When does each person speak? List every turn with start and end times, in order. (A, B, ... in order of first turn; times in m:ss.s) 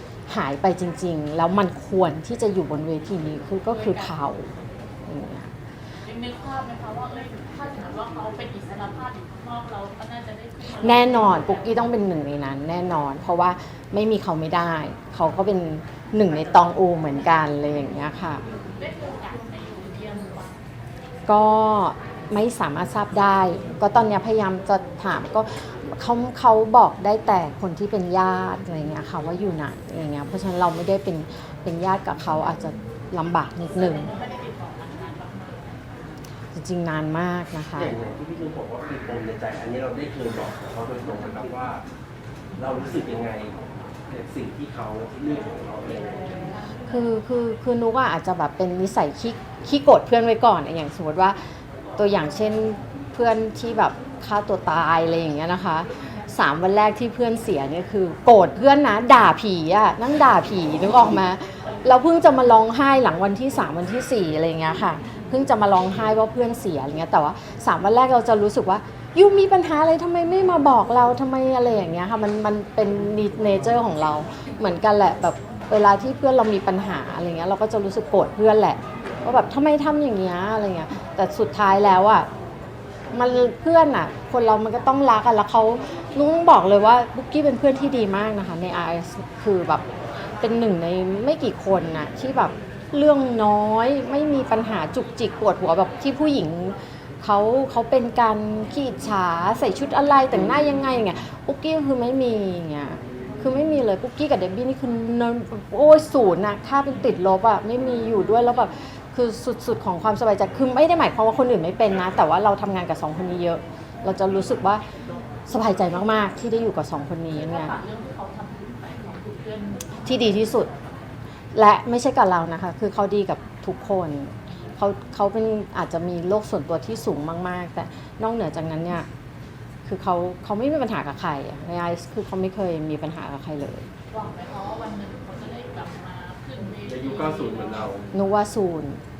0:00.3-0:04.5 A
0:03.7-0:04.1 B
0:05.0-0:05.5 A
0:06.0-0:11.8 B
0:10.7-0:18.4 A
0:18.7-0:20.6 B
0:21.3-0:34.1 A
0:33.7-0:35.8 B
0:36.5-0:38.0 A
0:37.8-0:41.8 C
0:42.6-0:43.5 C
0:44.1-0:46.5 C
0:46.9-0:51.4 A
0:52.0-1:22.3 A
1:23.1-1:29.8 A
1:30.4-1:54.8 A
1:55.5-1:57.7 A
1:57.3-1:59.9 B
2:00.0-2:00.7 A
2:01.5-2:09.1 A
2:09.8-2:13.9 A
2:14.1-2:17.9 B
2:16.8-2:18.1 C
2:18.1-2:19.0 A